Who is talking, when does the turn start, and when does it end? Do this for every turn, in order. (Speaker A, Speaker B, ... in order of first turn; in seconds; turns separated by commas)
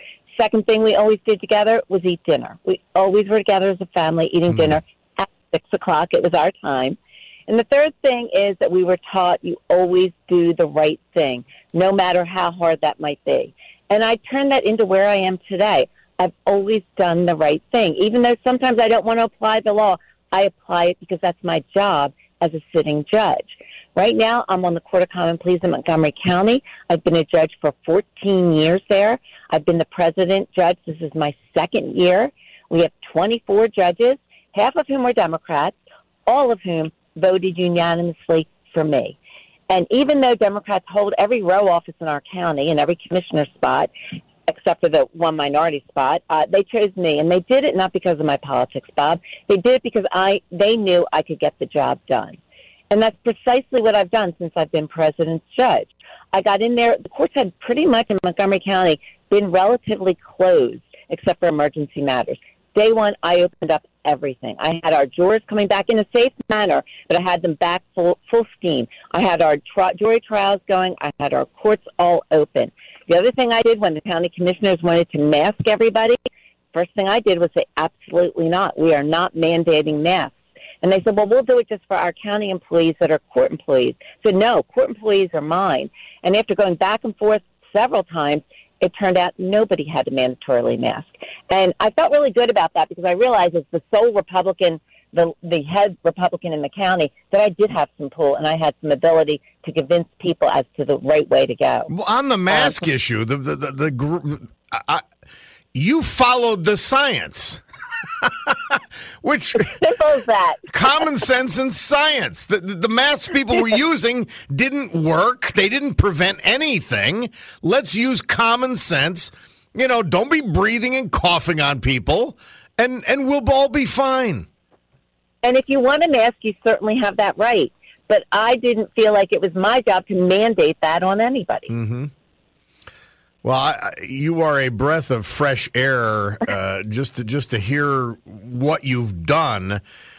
Speaker A: 0.3-35.8, Speaker B: 4.5-4.8, Speaker A: 36.3-39.2, Speaker A: 39.7-43.9, Speaker A: 44.5-52.4, Speaker A: 52.9-76.2, Speaker A: 76.7-101.9, Speaker B: 101.9-105.0, Speaker A: 102.5-102.8, Speaker B: 105.7-107.6, Speaker B: 108.2-109.8, Speaker A: 109.6-110.7, Speaker B: 110.7-124.5, Speaker A: 125.4-131.7, Speaker B: 131.7-132.1, Speaker B: 133.4-139.8